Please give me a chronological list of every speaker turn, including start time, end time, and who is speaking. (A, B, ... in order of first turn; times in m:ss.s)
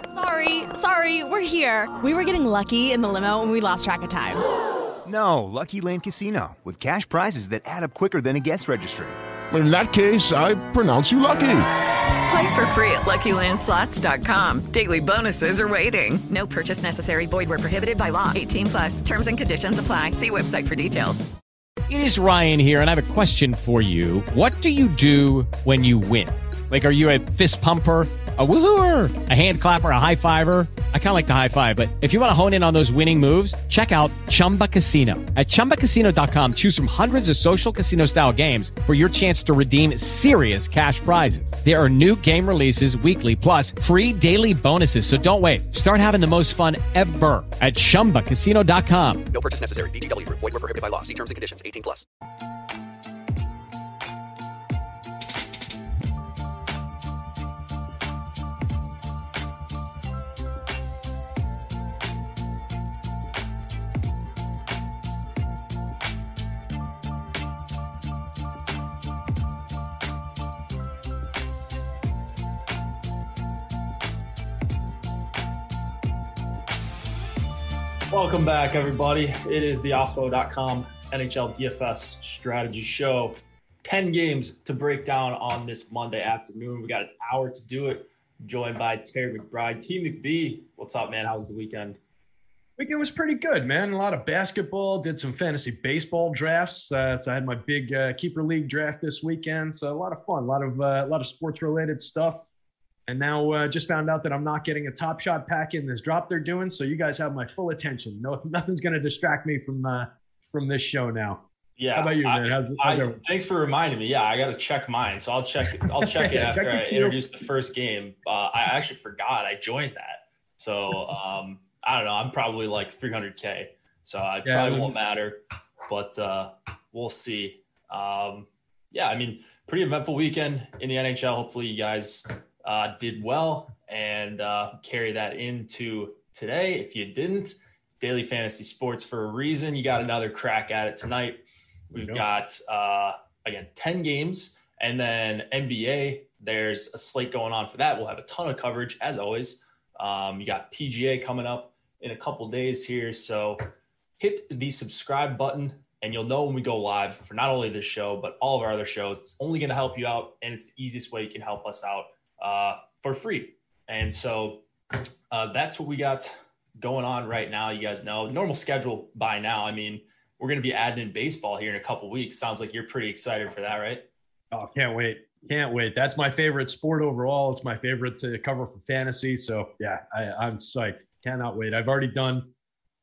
0:00.1-0:04.4 A
0:05.0-0:09.2 B
0:09.5-0:11.7 C
0:12.2-0:21.3 D
0:21.9-0:49.2 E
0:49.3-0:52.0 F
1:18.1-1:32.0 G
1:32.8-1:42.4 H
1:43.1-1:51.4 H
1:51.8-2:21.4 G
1:51.9-1:53.2 H
1:56.0-1:57.2 H
2:04.4-2:04.9 H
2:21.9-2:33.6 G
2:22.0-2:22.2 H
2:34.2-2:44.6 G
2:45.3-2:54.0 G
2:54.5-3:02.4 H